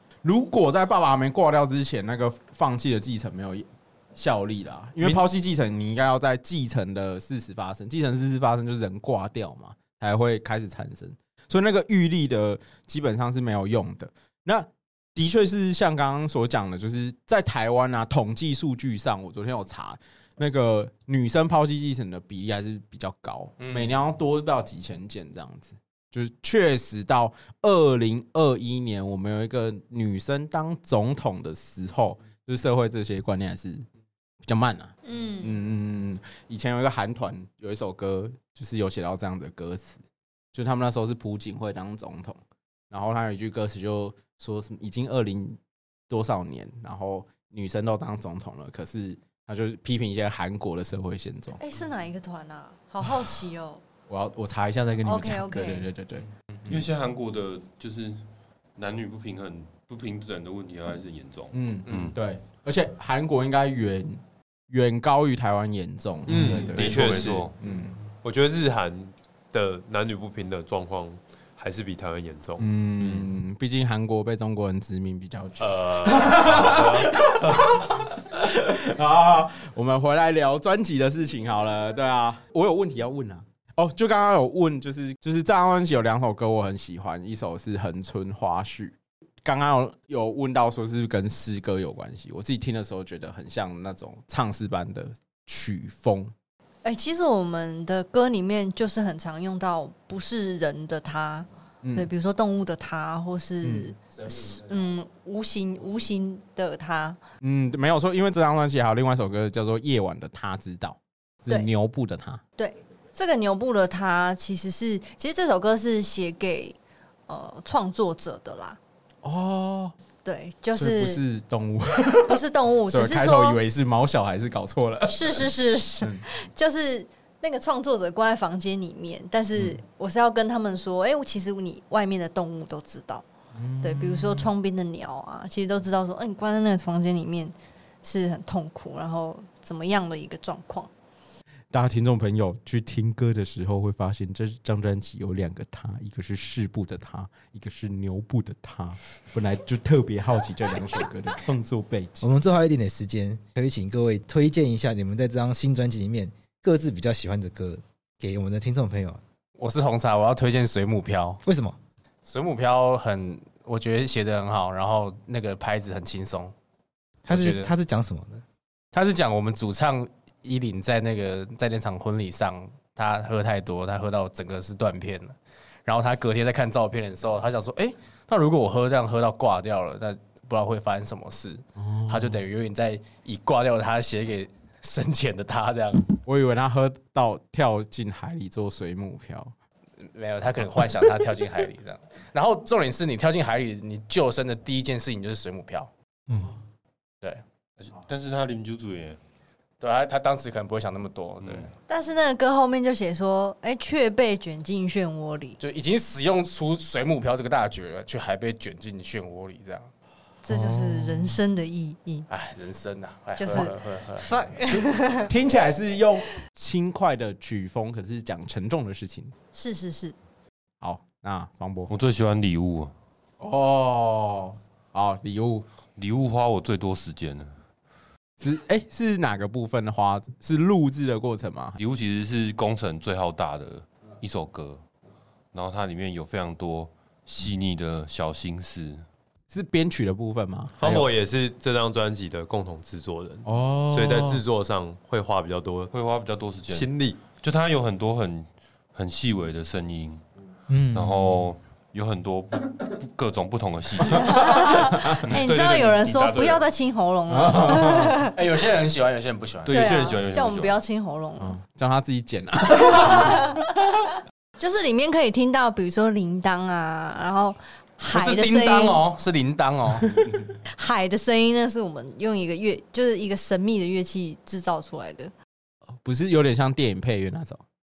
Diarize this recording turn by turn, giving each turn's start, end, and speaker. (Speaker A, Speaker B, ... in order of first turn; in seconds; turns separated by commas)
Speaker A: 0.2-33.9, Speaker B: 23.6-24.0, Speaker A: 34.4-40.0, Speaker C: 35.0-35.6, Speaker A: 40.5-42.4, Speaker A: 42.9-51.6, Speaker C: 51.6-53.8, Speaker A: 54.1-56.8, Speaker C: 55.0-55.9, Speaker D: 56.6-58.2, Speaker D: 58.8-62.2, Speaker A: 61.5-68.0, Speaker E: 66.3-67.5, Speaker D: 66.3-67.6, Speaker E: 68.2-73.3, Speaker A: 72.6-96.3, Speaker E: 75.6-77.8, Speaker C: 96.8-107.2, Speaker A: 101.8-102.1, Speaker A: 103.6-103.9, Speaker A: 107.4-112.4, Speaker C: 112.6-116.8, Speaker C: 117.3-118.8, Speaker A: 119.2-120.0, Speaker C: 120.2-121.2, Speaker A: 120.7-125.5, Speaker C: 122.3-123.6, Speaker C: 125.0-133.2, Speaker A: 133.6-134.5, Speaker C: 133.8-140.9, Speaker A: 141.7-152.3, Speaker F: 152.2-159.2, Speaker B: 159.6-161.4, Speaker F: 161.4-161.8, Speaker B: 162.2-166.5, Speaker F: 167.3-168.4, Speaker B: 167.3-167.7, Speaker B: 168.9-186.2, Speaker A: 181.8-182.4, Speaker A: 186.2-189.5, Speaker B: 190.0-195.9, Speaker D: 197.8-199.2, Speaker B: 199.8-201.7, Speaker D: 201.4-201.7, Speaker C: 201.9-205.6, Speaker B: 205.6-209.9, Speaker C: 210.4-212.3, Speaker A: 210.5-211.4, Speaker B: 212.3-214.8, Speaker C: 213.4-215.3, Speaker A: 215.3-219.3, Speaker C: 219.5-220.2, Speaker A: 220.8-221.9, Speaker D: 221.9-222.9, Speaker A: 223.4-225.7, Speaker D: 226.0-227.5, Speaker A: 228.4-231.8, Speaker D: 231.8-234.8, Speaker D: 235.5-239.1, Speaker A: 239.5-241.1, Speaker E: 240.8-245.9, Speaker A: 243.4-244.4, Speaker D: 245.9-250.2, Speaker E: 246.7-247.2, Speaker F: 250.7-251.4, Speaker D: 250.9-254.6, Speaker C: 254.0-258.3, Speaker E: 255.3-256.2, Speaker D: 255.5-256.6, Speaker A: 257.3-258.2, Speaker B: 258.2-260.0, Speaker D: 259.6-260.8, Speaker C: 259.7-261.6, Speaker A: 261.4-263.7, Speaker C: 263.0-263.7, Speaker C: 264.6-269.0, Speaker B: 268.1-270.2, Speaker A: 269.9-270.5, Speaker C: 270.7-275.3, Speaker A: 276.0-277.6